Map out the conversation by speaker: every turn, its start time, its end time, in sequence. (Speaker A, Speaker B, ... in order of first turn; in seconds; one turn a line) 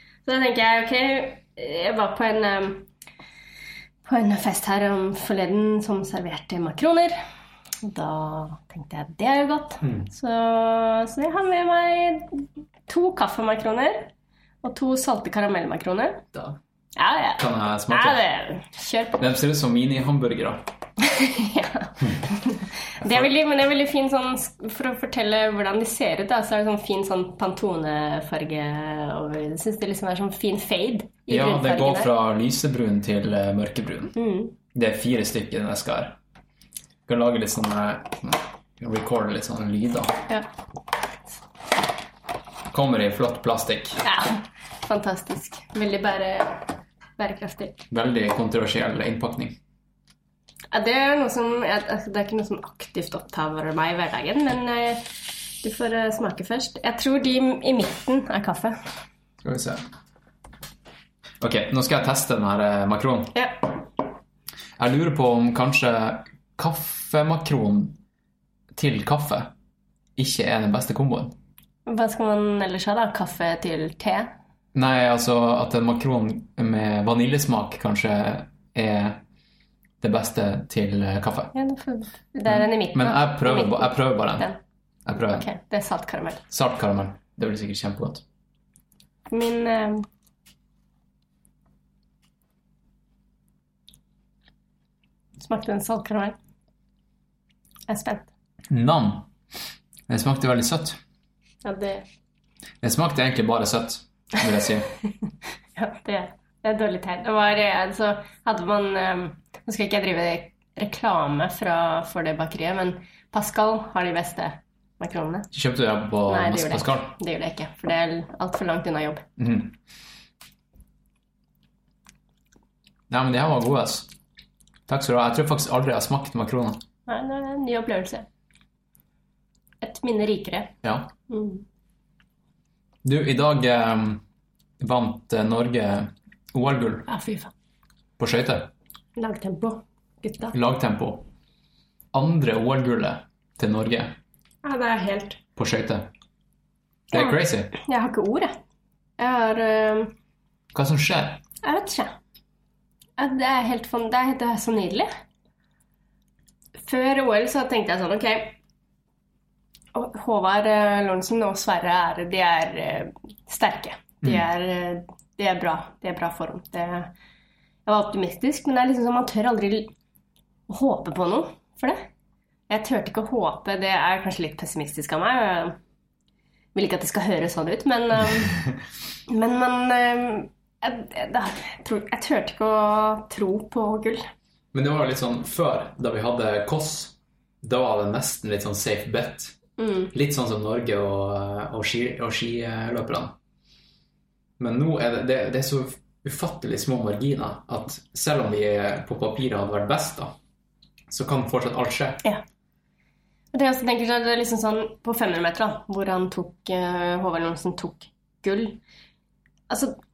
Speaker A: 0.2-2.9
Speaker A: 4.0-7.2
Speaker A: 7.8-14.1
Speaker B: 9.8-10.1
Speaker A: 14.6-16.2
Speaker A: 17.0-19.2
Speaker B: 17.4-18.2
Speaker B: 19.2-20.6
Speaker A: 21.0-32.1
Speaker B: 23.0-23.3
Speaker B: 31.3-34.2
Speaker A: 34.2-34.5
Speaker B: 34.7-36.2
Speaker B: 37.1-40.2
Speaker B: 42.7-44.0
Speaker A: 44.0-47.9
Speaker B: 47.9-49.6
Speaker A: 50.7-58.8
Speaker B: 59.4-59.8
Speaker B: 61.4-63.3
Speaker B: 64.8-68.0
Speaker B: 68.8-69.5
Speaker B: 70.2-71.3
Speaker A: 71.9-74.3
Speaker B: 74.8-79.2
Speaker B: 80.0-81.5
Speaker A: 81.5-84.6
Speaker B: 82.5-84.5
Speaker B: 85.0-85.5
Speaker A: 85.2-86.4
Speaker B: 86.5-88.2
Speaker A: 89.3-90.1
Speaker A: 95.4-96.4
Speaker A: 97.9-98.3
Speaker B: 98.7-99.3
Speaker B: 100.1-101.0
Speaker A: 101.6-102.0
Speaker B: 102.8-104.9
Speaker A: 105.8-115.5
Speaker B: 115.5-117.1
Speaker A: 116.3-119.2
Speaker B: 119.4-119.7
Speaker B: 123.1-124.1
Speaker B: 124.9-126.8
Speaker A: 127.1-128.3
Speaker A: 129.8-130.7
Speaker B: 130.8-131.1
Speaker A: 131.3-131.7
Speaker B: 133.0-134.2
Speaker B: 134.8-137.1
Speaker A: 137.1-137.5
Speaker B: 138.2-138.7
Speaker A: 139.2-140.6
Speaker B: 140.5-141.2
Speaker B: 142.1-144.2
Speaker A: 144.6-145.4
Speaker B: 145.6-146.1
Speaker B: 147.1-147.7
Speaker A: 147.1-148.6
Speaker A: 149.2-150.1
Speaker B: 150.7-151.4
Speaker A: 151.6-152.2
Speaker A: 153.2-155.1
Speaker A: 156.8-158.6
Speaker A: 159.9-167.1
Speaker A: 167.9-169.9
Speaker A: 170.7-172.1
Speaker A: 172.7-175.8
Speaker A: 176.7-178.6
Speaker A: 179.3-184.3
Speaker B: 184.7-189.6
Speaker A: 189.8-190.1
Speaker B: 190.1-193.4
Speaker B: 194.6-200.3
Speaker B: 201.1-202.2
Speaker A: 203.5-208.8
Speaker A: 209.7-209.9